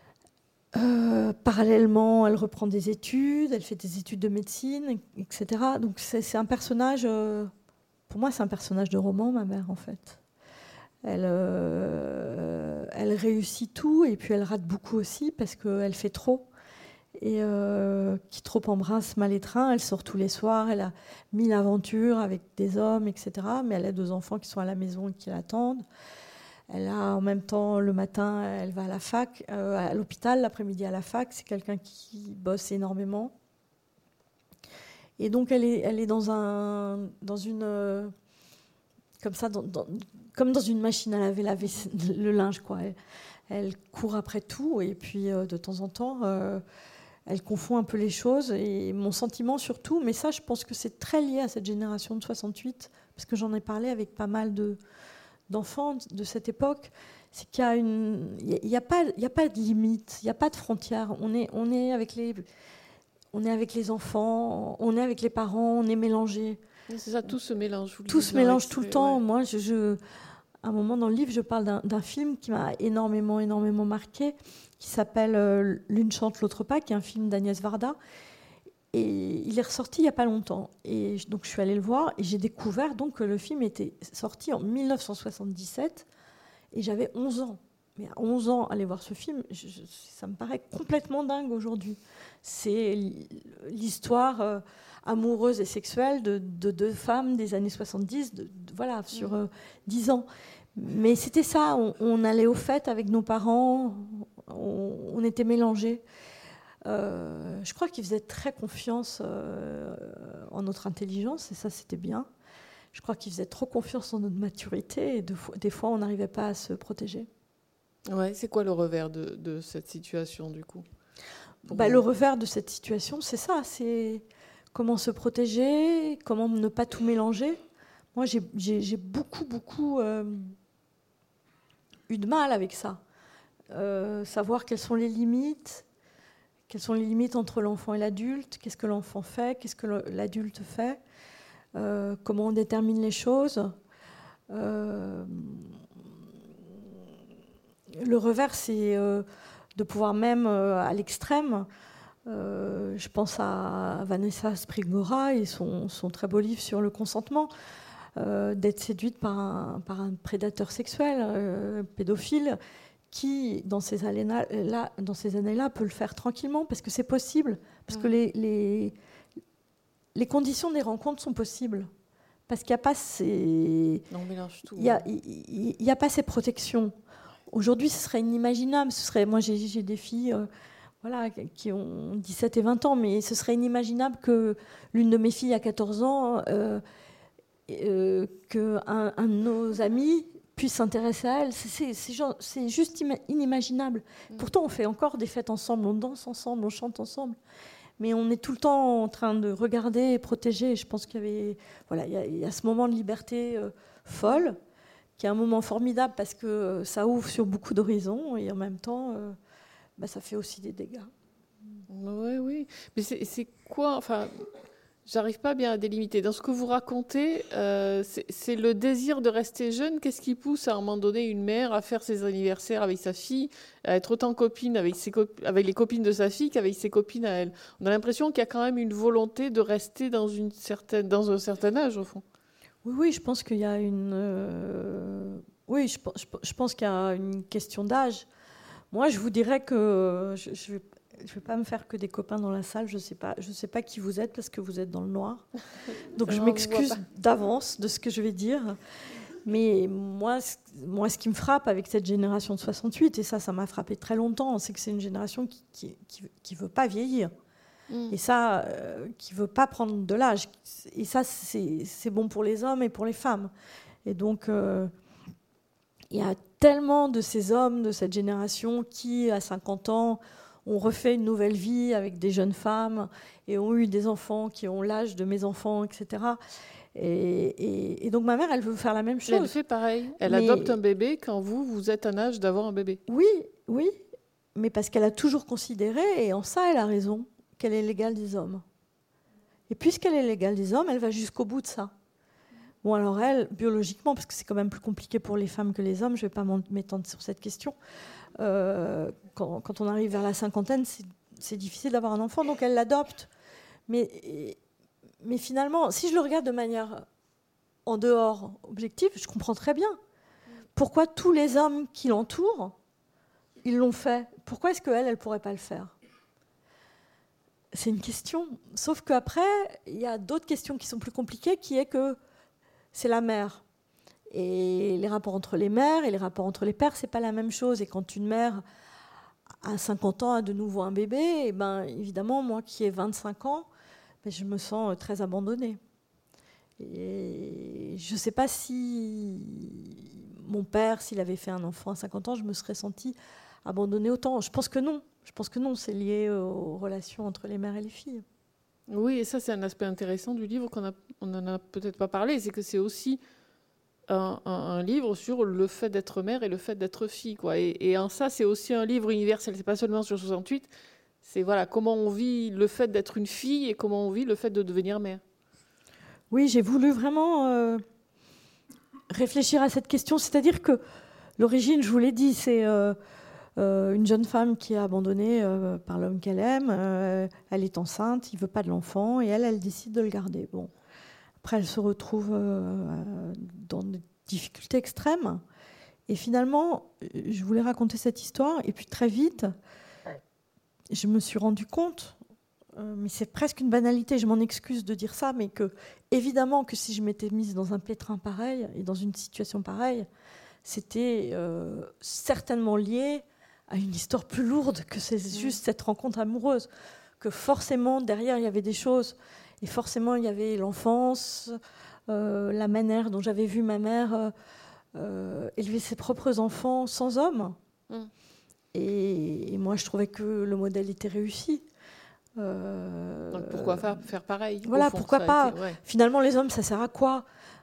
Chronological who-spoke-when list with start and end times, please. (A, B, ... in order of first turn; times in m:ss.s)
0:00.7-0:07.5 A
0:08.1-0:10.2 A
0:11.0-0:16.5 A
0:17.2-0:25.8 A
0:26.7-0:33.3 A
0:35.2-0:38.1 A
0:39.2-0:43.0 A
0:43.5-0:46.6 A
0:47.3-0:54.8 A
0:55.5-1:02.4 A
1:03.3-1:06.6 A
1:06.9-1:09.2 B
1:08.1-1:10.0 A
1:10.6-1:18.0 A
1:18.9-1:26.0 A
1:26.7-1:46.0 A
1:46.8-1:52.3 A
1:52.9-1:57.3 A
1:58.1-2:00.8 B
2:01.7-2:02.0 B
2:01.7-2:07.6 A
2:08.1-2:10.6 A
2:12.1-2:13.0 A
2:13.7-2:15.9 A
2:16.7-2:21.0 A
2:21.7-2:23.8 A
2:24.5-2:25.8 A
2:27.9-2:31.7 A
2:32.3-2:37.5 A
2:38.2-2:42.6 A
2:43.1-2:49.0 A
2:50.1-2:51.9 A
2:52.5-2:54.0 A
2:54.1-2:55.0 B
2:54.7-2:56.9 A
2:57.5-3:00.5 A
3:01.0-3:06.8 A
3:07.7-3:17.4 A
3:18.0-3:24.6 A
3:25.2-3:29.4 A
3:30.0-3:31.1 A
3:31.9-3:34.4 B
3:35.0-3:52.2 B
3:52.8-3:58.3 A
3:58.9-4:05.4 A
4:06.1-4:08.8 A
4:06.2-4:07.0 B
4:09.4-4:17.3 A
4:17.9-4:18.2 B
4:18.1-4:23.5 A
4:24.0-4:24.9 A
4:26.1-4:36.4 A
4:36.9-4:39.6 A
4:39.3-4:43.0 B
4:40.2-4:40.8 A
4:43.1-4:44.0 A
4:44.6-4:48.6 A
4:49.7-4:51.9 A
4:52.8-4:57.8 A
4:58.4-5:03.3 A
5:03.9-5:04.6 A
5:05.2-5:07.0 A
5:07.8-5:10.0 A
5:10.8-5:12.8 A
5:13.6-5:16.0 A
5:17.7-5:22.2 A
5:22.9-5:23.6 A
5:24.3-5:28.6 A
5:29.6-5:33.7 A
5:34.2-5:35.8 A
5:36.8-5:48.2 A
5:48.9-5:53.2 B
5:54.1-6:00.7 B
6:01.2-6:05.2 B
6:06.3-6:07.8 A
6:09.1-6:10.8 A
6:11.4-6:13.0 A
6:13.6-6:20.7 A
6:21.4-6:25.4 A
6:26.1-6:29.5 A
6:30.9-6:32.2 A
6:32.7-6:40.1 A
6:40.6-6:46.7 A
6:47.2-6:51.6 A
6:52.1-6:54.3 A
6:54.9-6:57.6 A
6:58.7-7:01.6 A
7:02.4-7:03.9 A
7:03.3-7:05.8 B
7:04.6-7:07.3 A